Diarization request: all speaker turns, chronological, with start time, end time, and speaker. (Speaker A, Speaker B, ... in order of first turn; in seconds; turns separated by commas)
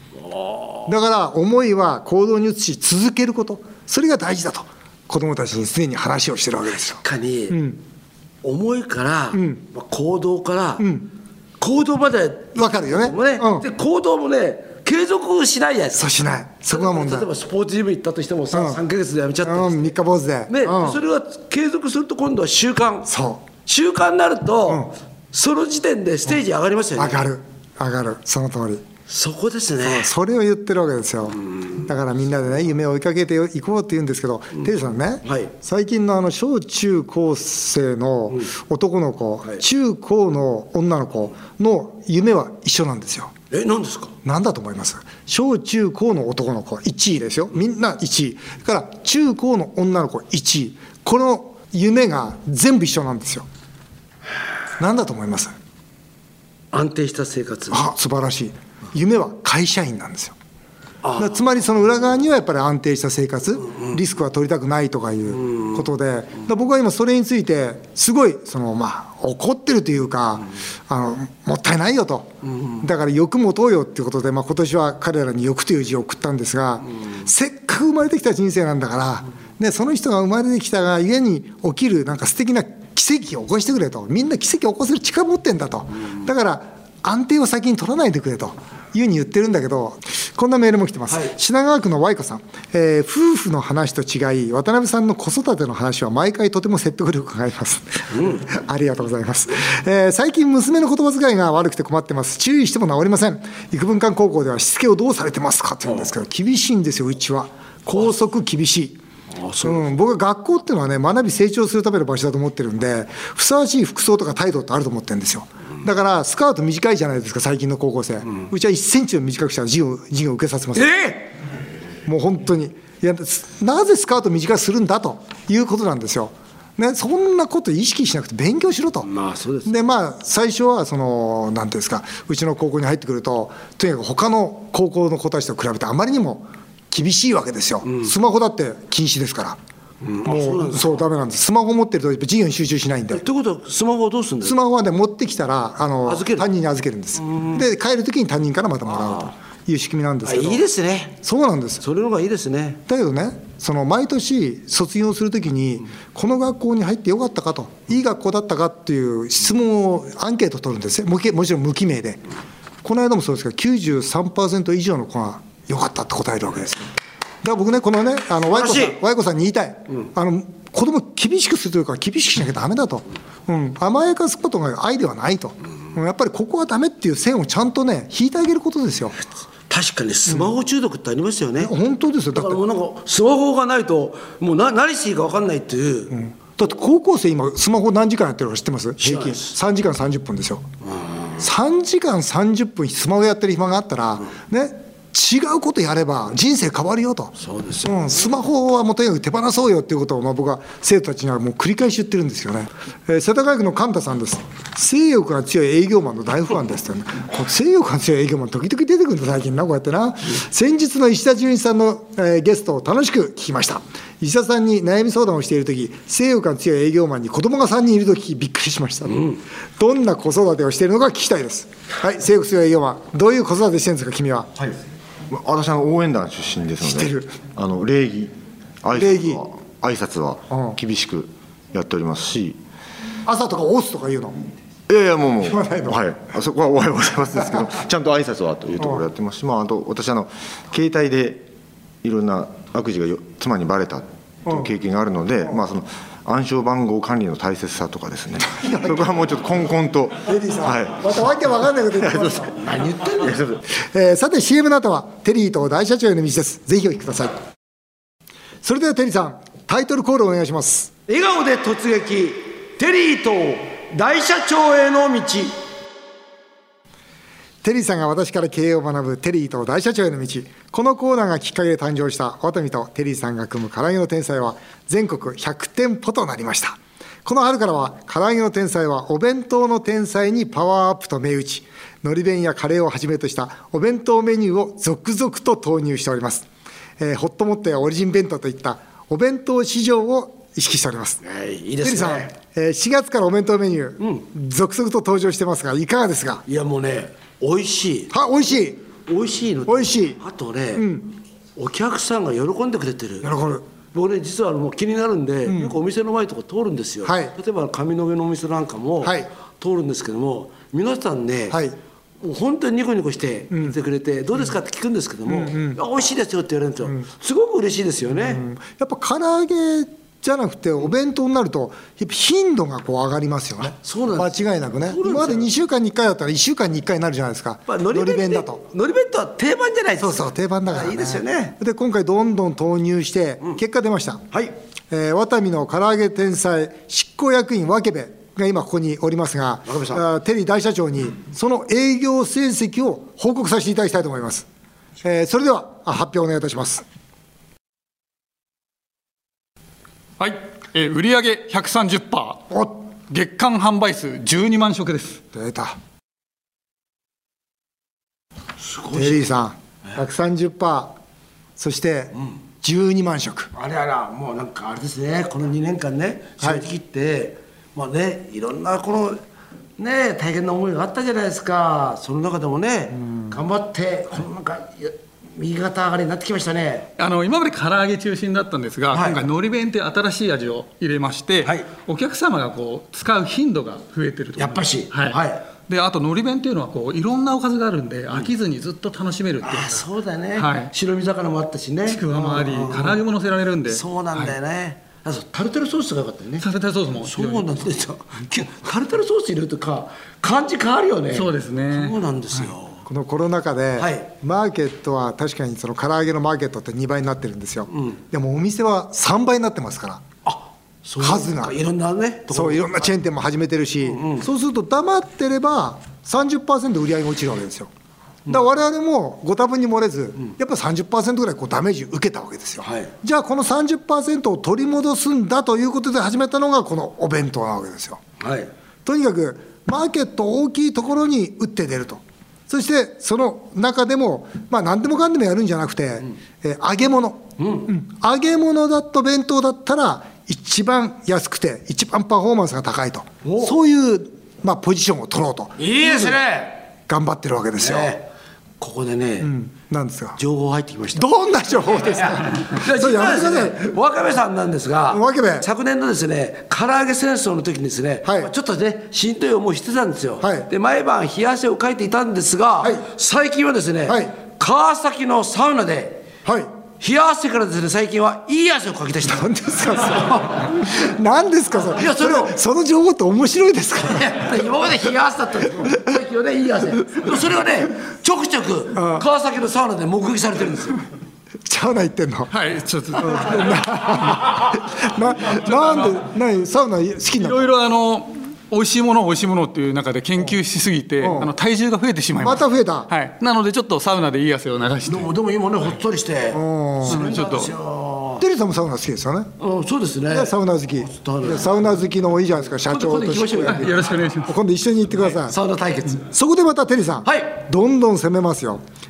Speaker A: 0.2-0.9, Speaker B: 0.9-7.8, Speaker A: 7.0-7.6, Speaker A: 8.4-10.9, Speaker B: 9.3-9.6, Speaker B: 10.8-11.1, Speaker A: 11.6-16.1, Speaker B: 12.6-13.7, Speaker B: 15.9-17.3, Speaker A: 16.7-19.9, Speaker B: 18.5-18.8, Speaker B: 19.4-21.0, Speaker A: 20.5-23.1, Speaker B: 23.1-23.5, Speaker A: 23.6-27.2, Speaker B: 27.0-28.8, Speaker A: 29.1-30.1, Speaker B: 29.8-43.3, Speaker A: 35.2-35.5, Speaker A: 43.5-44.1, Speaker B: 44.2-53.5, Speaker B: 54.8-55.5, Speaker A: 56.7-57.9, Speaker B: 57.7-60.4, Speaker A: 61.0-61.4, Speaker B: 61.2-109.0, Speaker A: 72.5-72.8, Speaker A: 98.1-98.4, Speaker A: 109.3-109.8, Speaker B: 109.6-121.0, Speaker A: 120.8-121.3, Speaker B: 122.1-129.1, Speaker A: 129.0-129.7, Speaker B: 129.7-139.6, Speaker A: 137.9-138.1, Speaker A: 140.0-141.0, Speaker B: 140.2-143.2, Speaker A: 143.1-144.6, Speaker B: 144.4-150.6, Speaker A: 146.1-146.5, Speaker A: 147.2-147.6, Speaker A: 150.2-151.2, Speaker B: 151.2-151.8, Speaker A: 151.8-152.8, Speaker B: 152.9-162.2, Speaker B: 162.8-166.9, Speaker B: 167.4-179.2, Speaker A: 168.4-169.0, Speaker A: 179.7-181.7, Speaker B: 181.6-182.6, Speaker A: 182.3-186.2, Speaker B: 186.1-190.7, Speaker A: 189.0-189.5, Speaker A: 190.9-191.4, Speaker B: 191.4-197.3, Speaker A: 197.4-197.9, Speaker B: 197.8-224.5, Speaker C: 225.3-232.6, Speaker B: 226.8-227.4, Speaker B: 229.0-229.4, Speaker B: 230.5-230.8, Speaker B: 233.3-234.4, Speaker C: 234.9-241.5, Speaker B: 235.5-236.0, Speaker C: 242.0-251.3, Speaker B: 248.5-249.0, Speaker B: 250.3-252.6, Speaker C: 251.9-252.5, Speaker A: 252.6-253.4, Speaker C: 253.2-253.6, Speaker B: 253.9-257.4, Speaker B: 258.6-260.9, Speaker A: 261.1-265.6, Speaker B: 267.6-286.5, Speaker B: 287.0-291.2, Speaker A: 291.2-292.3, Speaker B: 291.8-296.4, Speaker A: 296.5-298.1, Speaker B: 298.1-298.8, Speaker A: 299.1-300.9, Speaker B: 299.7-300.2, Speaker B: 300.8-301.1, Speaker A: 301.6-303.3, Speaker B: 303.2-303.6, Speaker A: 303.9-311.6, Speaker B: 305.5-305.8, Speaker B: 307.1-307.3, Speaker B: 309.0-309.3, Speaker B: 311.5-311.8, Speaker A: 312.2-318.4, Speaker B: 315.3-315.8, Speaker B: 318.1-328.6, Speaker A: 323.8-325.5, Speaker A: 327.7-331.6, Speaker B: 330.0-334.2, Speaker B: 334.9-344.5, Speaker A: 339.7-340.0, Speaker B: 345.0-346.9, Speaker D: 350.2-352.5, Speaker D: 353.1-355.2, Speaker B: 355.3-355.8, Speaker A: 358.6-359.3, Speaker B: 358.9-360.9, Speaker B: 361.6-363.5, Speaker A: 363.6-369.2, Speaker A: 369.8-376.9, Speaker B: 372.9-373.3, Speaker D: 377.0-390.7, Speaker A: 378.9-379.3, Speaker A: 384.4-385.4, Speaker A: 389.4-393.0, Speaker D: 391.9-394.4, Speaker A: 393.7-396.5, Speaker D: 396.4-397.5, Speaker A: 397.0-402.8, Speaker D: 401.1-402.4, Speaker B: 402.9-410.0, Speaker A: 403.8-404.1, Speaker A: 410.3-412.8, Speaker B: 411.0-411.6, Speaker B: 412.3-417.7, Speaker A: 413.8-414.2, Speaker B: 418.3-428.0, Speaker A: 422.6-422.9, Speaker A: 428.2-428.5, Speaker B: 428.9-446.2, Speaker A: 437.4-437.6, Speaker A: 443.2-443.5, Speaker A: 445.6-446.7, Speaker B: 446.9-447.9, Speaker A: 447.6-448.1, Speaker A: 448.6-449.3, Speaker B: 449.2-450.2, Speaker A: 450.2-451.1, Speaker B: 450.9-453.7, Speaker A: 451.9-466.1, Speaker B: 454.9-455.5, Speaker B: 458.1-458.3, Speaker B: 460.2-460.5, Speaker B: 463.9-464.1, Speaker A: 466.8-469.3, Speaker B: 469.1-474.3, Speaker A: 469.8-470.5, Speaker A: 471.6-472.4, Speaker A: 473.8-480.9, Speaker B: 478.8-479.1, Speaker B: 481.5-482.3, Speaker D: 482.3-483.5, Speaker B: 483.0-487.5, Speaker D: 487.2-495.1, Speaker B: 491.0-491.3, Speaker B: 492.2-492.9, Speaker A: 494.9-498.2, Speaker B: 496.3-497.1, Speaker D: 496.9-497.6, Speaker B: 498.2-499.3, Speaker A: 499.4-501.7, Speaker B: 500.1-505.4, Speaker A: 502.6-503.8, Speaker D: 503.5-504.4, Speaker A: 505.1-506.1, Speaker B: 506.1-508.6, Speaker A: 507.1-507.3